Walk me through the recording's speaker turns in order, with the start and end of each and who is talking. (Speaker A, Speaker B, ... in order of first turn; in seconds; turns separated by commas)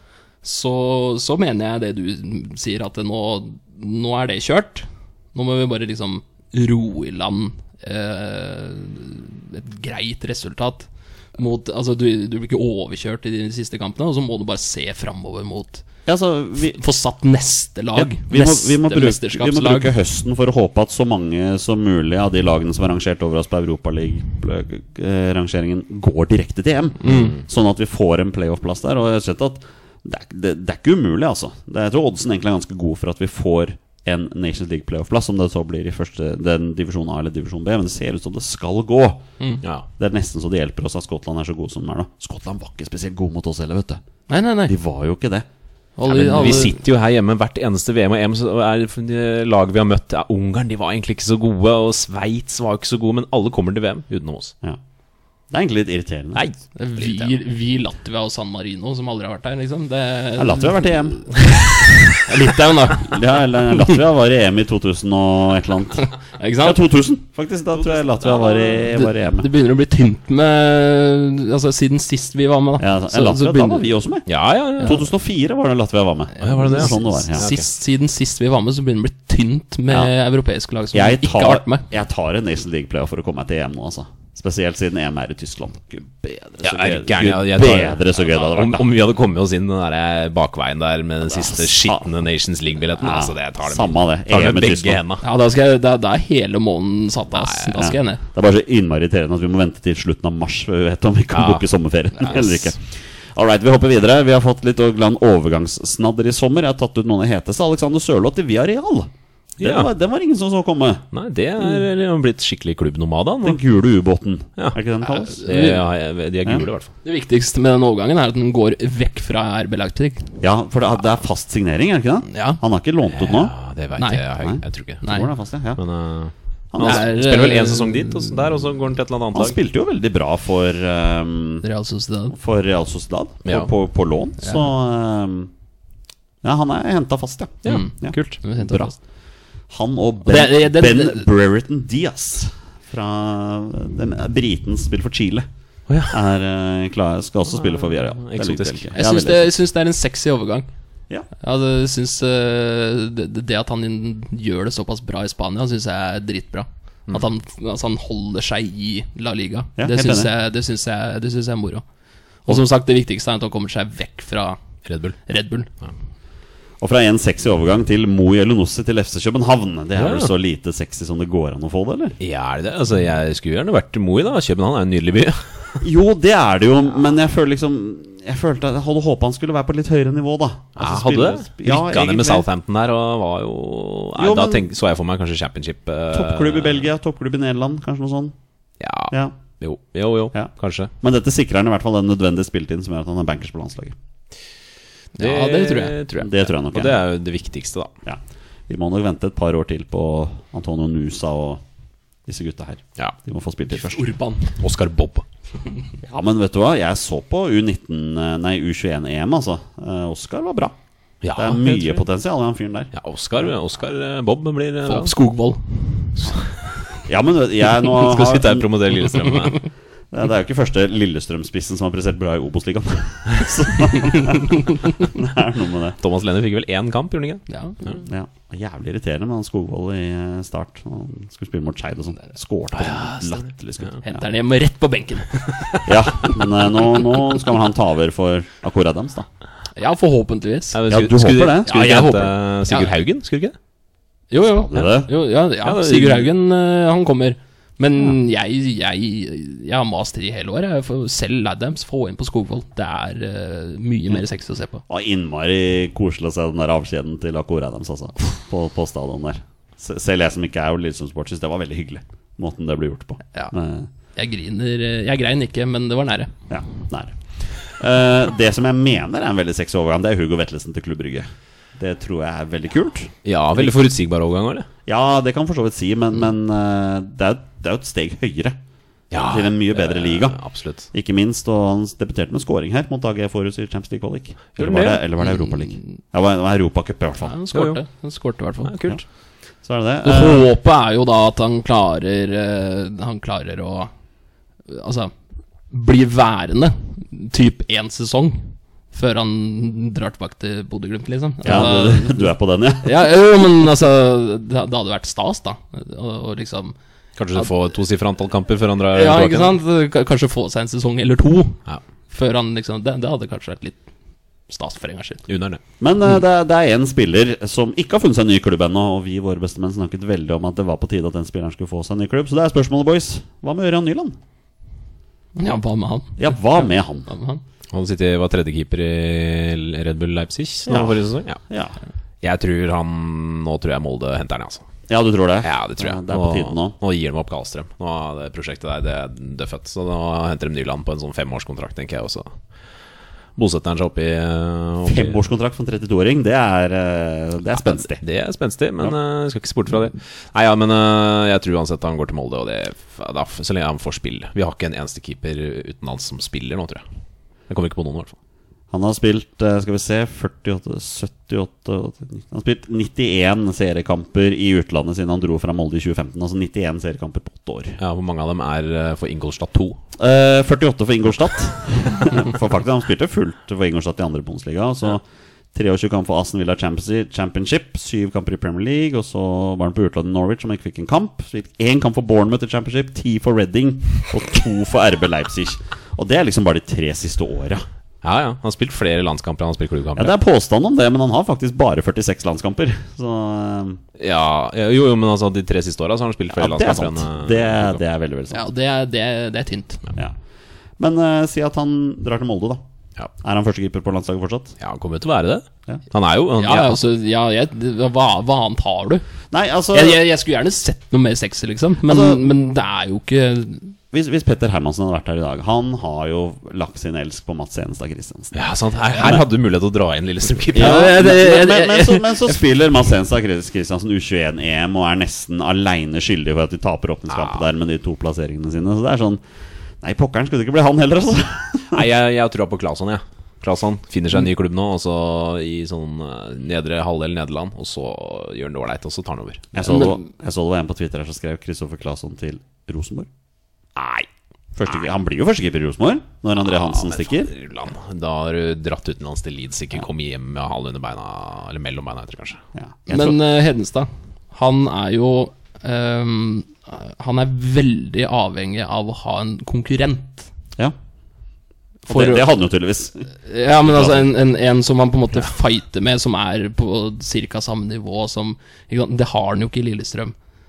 Speaker A: 0.4-15.8, Speaker B: 16.1-16.8, Speaker A: 16.7-19.9, Speaker B: 17.9-39.2, Speaker A: 27.0-27.4, Speaker B: 40.0-44.0, Speaker A: 44.3-44.7, Speaker B: 44.7-45.5, Speaker A: 46.0-46.8, Speaker C: 46.1-54.5, Speaker B: 55.5-56.4, Speaker C: 56.4-57.4, Speaker A: 56.8-61.3, Speaker B: 60.4-61.4, Speaker A: 62.1-63.2, Speaker B: 63.0-66.1, Speaker A: 66.0-66.8, Speaker B: 66.6-69.5, Speaker C: 67.9-68.6, Speaker A: 68.9-73.9, Speaker B: 72.8-74.3, Speaker C: 74.3-75.0, Speaker B: 74.8-77.4, Speaker A: 76.4-81.9, Speaker C: 76.4-77.7, Speaker B: 80.9-88.9, Speaker C: 86.6-95.2, Speaker B: 91.3-92.0, Speaker B: 93.0-95.0, Speaker A: 95.2-98.2, Speaker C: 97.3-97.8, Speaker B: 97.8-111.0, Speaker C: 101.3-101.6, Speaker C: 109.6-109.9, Speaker C: 111.1-113.6, Speaker B: 113.4-115.4, Speaker A: 115.2-115.8, Speaker C: 115.4-116.9, Speaker A: 117.0-120.3, Speaker B: 120.4-123.5, Speaker A: 122.3-122.6, Speaker C: 123.1-125.0, Speaker A: 124.0-124.2, Speaker B: 124.4-125.8, Speaker A: 125.0-125.3, Speaker C: 125.8-129.6, Speaker B: 126.7-127.1, Speaker A: 126.8-128.2, Speaker B: 129.3-131.6, Speaker A: 131.6-132.3, Speaker B: 132.3-135.5, Speaker B: 136.4-138.9, Speaker C: 137.6-138.4, Speaker A: 137.7-138.9, Speaker B: 139.7-145.5, Speaker A: 140.2-141.3, Speaker C: 145.9-146.2, Speaker B: 146.1-149.5, Speaker C: 147.6-148.9, Speaker A: 148.9-150.7, Speaker A: 151.4-161.8, Speaker B: 159.8-160.3, Speaker A: 162.5-164.6, Speaker C: 164.9-165.2, Speaker A: 165.3-165.7, Speaker B: 166.8-172.2, Speaker C: 170.0-170.3, Speaker C: 172.2-175.8, Speaker B: 175.8-182.5, Speaker C: 180.8-186.9, Speaker B: 184.2-184.6, Speaker B: 186.1-188.3, Speaker C: 188.8-190.9, Speaker B: 190.3-194.0, Speaker A: 195.2-196.0, Speaker C: 195.2-197.9, Speaker B: 196.2-197.0, Speaker B: 198.1-201.6, Speaker B: 202.3-204.1, Speaker A: 203.8-204.6, Speaker C: 204.6-205.2, Speaker B: 206.0-210.8, Speaker C: 211.2-212.0, Speaker B: 211.3-212.9, Speaker C: 212.9-215.1, Speaker A: 214.9-216.2, Speaker B: 217.1-219.2, Speaker C: 217.8-219.6, Speaker B: 220.1-226.0, Speaker C: 226.0-228.0, Speaker A: 227.5-227.9, Speaker B: 228.0-234.2, Speaker C: 232.8-234.0, Speaker A: 234.0-235.7, Speaker B: 235.8-239.3, Speaker A: 239.8-240.8, Speaker C: 240.7-243.6, Speaker B: 240.9-242.1, Speaker A: 241.7-242.9, Speaker A: 244.3-254.8, Speaker B: 244.6-245.1, Speaker C: 245.6-246.3, Speaker B: 254.9-263.9, Speaker A: 264.2-266.3, Speaker B: 266.5-273.8, Speaker C: 273.2-274.7, Speaker B: 274.9-278.6, Speaker C: 279.1-280.9, Speaker B: 279.3-280.4, Speaker B: 280.9-287.4, Speaker C: 284.6-285.0, Speaker A: 287.2-288.7, Speaker C: 287.5-287.8, Speaker C: 288.6-289.0, Speaker B: 289.6-290.5, Speaker A: 290.0-293.9, Speaker A: 294.7-295.1, Speaker A: 295.7-302.3, Speaker B: 301.4-303.0, Speaker A: 302.8-306.8, Speaker C: 307.2-309.6, Speaker A: 308.9-311.6, Speaker A: 312.1-313.8, Speaker A: 314.5-315.2, Speaker C: 315.3-315.6, Speaker B: 315.8-324.2, Speaker A: 325.4-327.4, Speaker B: 326.2-327.1, Speaker C: 327.7-331.4, Speaker B: 330.7-331.8, Speaker C: 332.2-334.6, Speaker B: 334.9-336.8, Speaker C: 335.4-342.3, Speaker C: 343.4-345.2, Speaker B: 344.9-348.0, Speaker C: 347.7-356.8, Speaker C: 357.5-358.1, Speaker B: 358.7-367.8, Speaker C: 367.8-369.8, Speaker B: 370.0-387.6, Speaker C: 388.0-390.1, Speaker B: 390.0-393.8, Speaker C: 394.0-397.8, Speaker B: 396.3-398.4, Speaker A: 398.3-399.8, Speaker B: 400.8-402.6, Speaker B: 403.2-404.6, Speaker C: 404.6-406.8, Speaker A: 406.4-409.0, Speaker B: 409.3-410.0, Speaker A: 409.7-413.8, Speaker B: 411.8-412.3, Speaker B: 413.9-418.4, Speaker C: 418.3-420.9, Speaker A: 420.5-422.4, Speaker B: 420.5-429.2, Speaker C: 427.1-427.4, Speaker B: 429.8-431.9, Speaker C: 431.7-439.6, Speaker B: 439.5-443.1, Speaker A: 439.7-440.0, Speaker C: 443.8-444.1, Speaker B: 444.6-447.3, Speaker C: 446.4-452.4, Speaker B: 452.6-453.2, Speaker A: 452.9-460.3, Speaker A: 461.9-462.3, Speaker B: 461.9-464.1, Speaker A: 463.2-470.1